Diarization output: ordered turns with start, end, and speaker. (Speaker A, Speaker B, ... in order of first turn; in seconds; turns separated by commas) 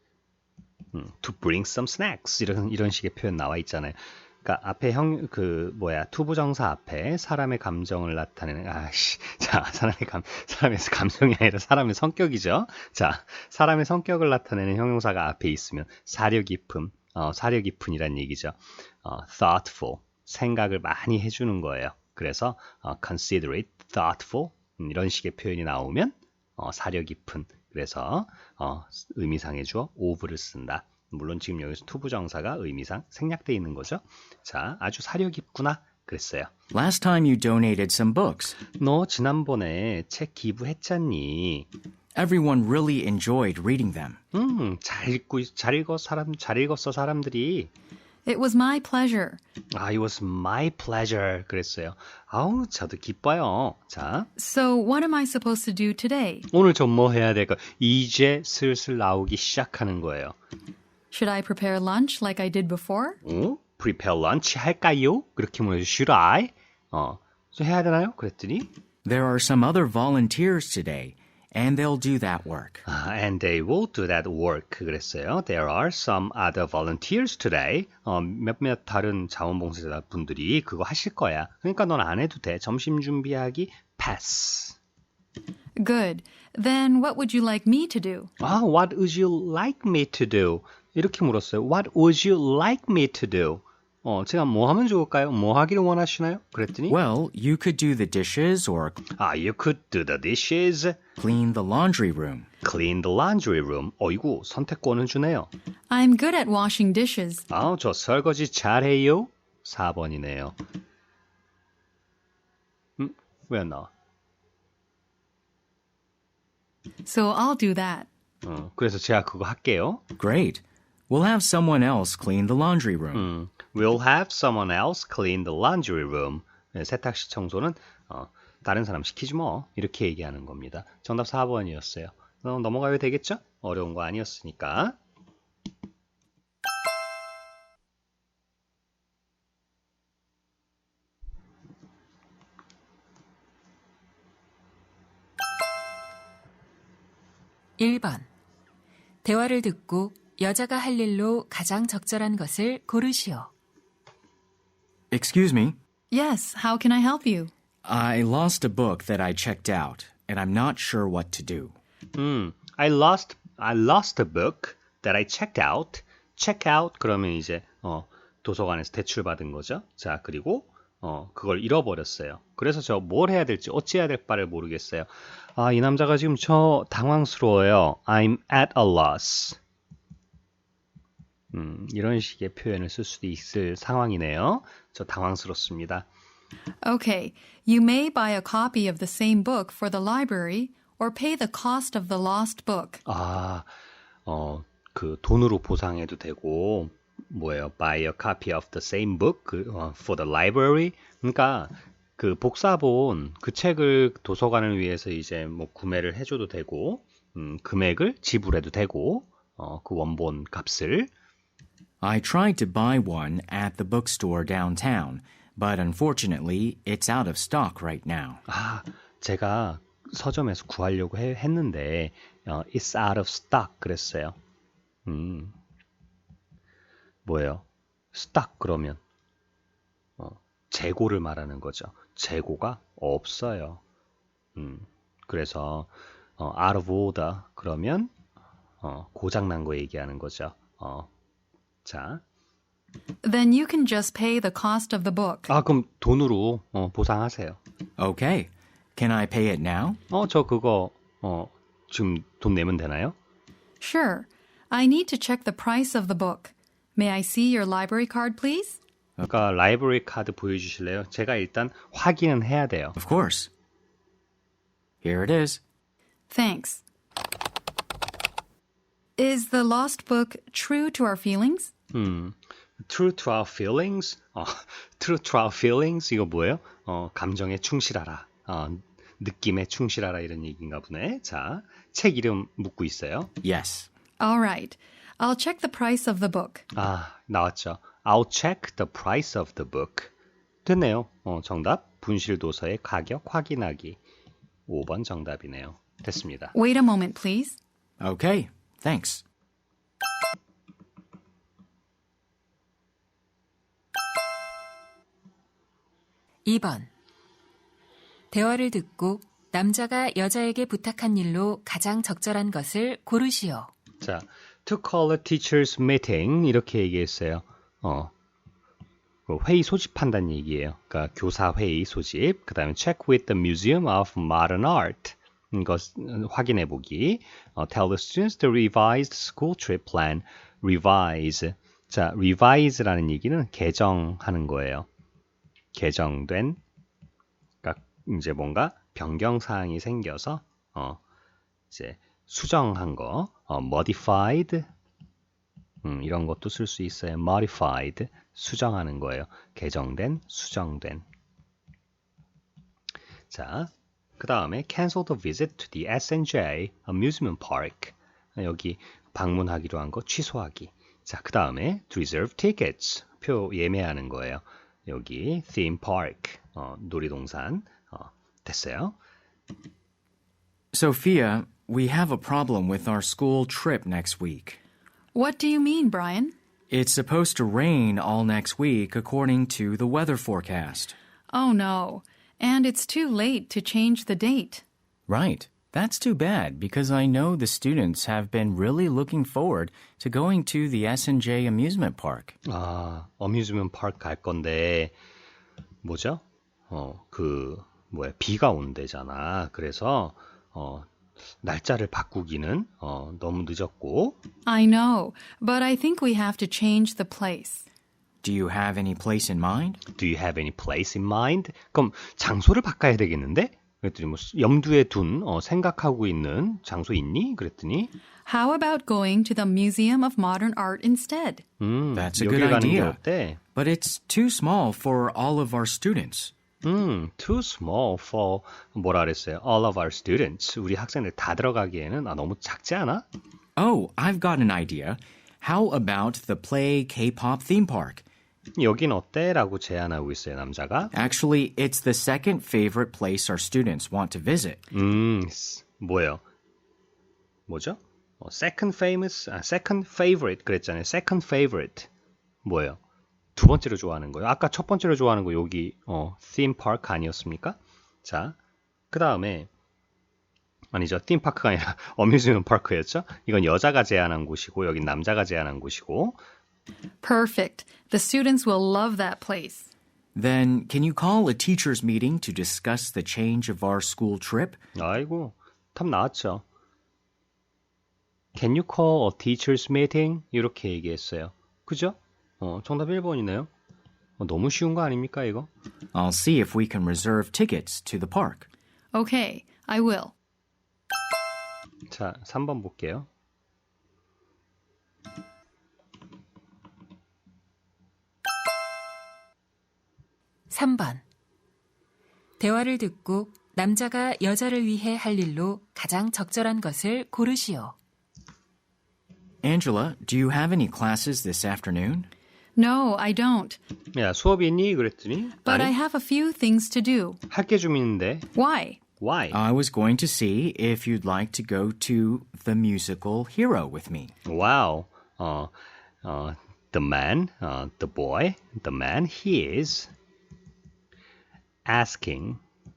Speaker A: 0.9-36.5, Speaker B: 36.7-38.6, Speaker A: 38.7-41.7, Speaker B: 42.1-44.2, Speaker A: 44.3-47.7, Speaker C: 48.2-49.4, Speaker A: 49.7-54.3, Speaker C: 54.4-56.5, Speaker A: 56.5-60.4, Speaker C: 61.1-63.2, Speaker A: 63.2-68.7, Speaker B: 69.0-72.8, Speaker A: 72.9-84.8, Speaker C: 85.8-88.3, Speaker A: 88.4-97.0, Speaker B: 96.9-99.0, Speaker A: 99.1-101.0, Speaker B: 101.2-102.5, Speaker A: 102.6-105.5, Speaker C: 105.9-107.4, Speaker A: 107.5-110.6, Speaker A: 113.0-113.9, Speaker C: 117.0-118.1, Speaker A: 118.4-120.0, Speaker B: 120.2-123.3, Speaker A: 123.1-135.0, Speaker D: 147.8-148.3, Speaker D: 149.2-153.5, Speaker B: 155.1-155.8, Speaker C: 156.1-157.5, Speaker B: 157.8-161.7, Speaker A: 162.1-179.6, Speaker A: 181.5-186.1, Speaker C: 186.8-193.0, Speaker A: 193.1-193.7, Speaker A: 194.2-211.1, Speaker B: 212.0-218.4, Speaker A: 218.5-224.4, Speaker A: 225.1-225.5, Speaker A: 227.2-229.0, Speaker A: 230.2-233.8, Speaker A: 234.6-238.1, Speaker A: 238.8-241.1, Speaker A: 241.8-242.2, Speaker C: 243.2-245.5, Speaker A: 245.5-247.6, Speaker B: 248.0-250.0, Speaker A: 250.1-253.1, Speaker C: 253.8-258.8, Speaker A: 259.3-262.9, Speaker B: 262.9-263.5, Speaker B: 265.0-265.6, Speaker C: 266.3-266.8, Speaker C: 269.2-271.7, Speaker A: 271.9-283.3, Speaker B: 283.4-283.9, Speaker C: 284.2-286.6, Speaker A: 286.7-290.1, Speaker A: 290.6-294.0, Speaker A: 294.7-296.5, Speaker C: 296.5-297.6, Speaker B: 298.0-299.2, Speaker D: 306.4-306.9, Speaker D: 308.3-313.7, Speaker A: 314.0-318.1, Speaker A: 319.3-334.9, Speaker A: 335.7-336.6, Speaker A: 337.6-341.0, Speaker A: 341.7-344.7, Speaker A: 345.8-351.0, Speaker A: 353.3-368.9, Speaker B: 370.7-374.6, Speaker C: 375.1-376.3, Speaker B: 376.7-380.9, Speaker C: 381.3-384.6, Speaker B: 385.1-392.3, Speaker A: 392.4-394.9, Speaker A: 395.8-400.9, Speaker A: 401.4-404.1, Speaker C: 404.4-407.6, Speaker B: 408.2-409.8, Speaker A: 409.9-417.9, Speaker C: 418.2-421.4, Speaker A: 421.6-423.4, Speaker B: 421.9-423.0, Speaker B: 423.5-426.3, Speaker A: 426.6-433.0, Speaker B: 433.6-438.0, Speaker A: 438.6-440.9, Speaker B: 440.9-444.6, Speaker A: 444.7-446.2, Speaker A: 447.5-451.9, Speaker A: 452.4-452.8, Speaker A: 453.4-458.4, Speaker A: 458.9-459.5, Speaker A: 460.7-466.2, Speaker C: 467.0-469.7, Speaker B: 470.1-474.6, Speaker A: 474.7-476.4, Speaker A: 478.3-483.5, Speaker A: 484.2-485.5, Speaker B: 485.9-488.5, Speaker C: 488.9-490.1, Speaker A: 491.9-493.1, Speaker D: 500.5-501.0, Speaker D: 502.4-507.7, Speaker B: 509.4-512.1, Speaker C: 512.5-513.6, Speaker A: 513.9-515.7, Speaker C: 515.4-517.2, Speaker A: 517.3-518.3, Speaker C: 518.3-518.8, Speaker A: 519.0-519.4, Speaker B: 519.3-524.1, Speaker A: 524.2-529.9, Speaker A: 531.6-532.4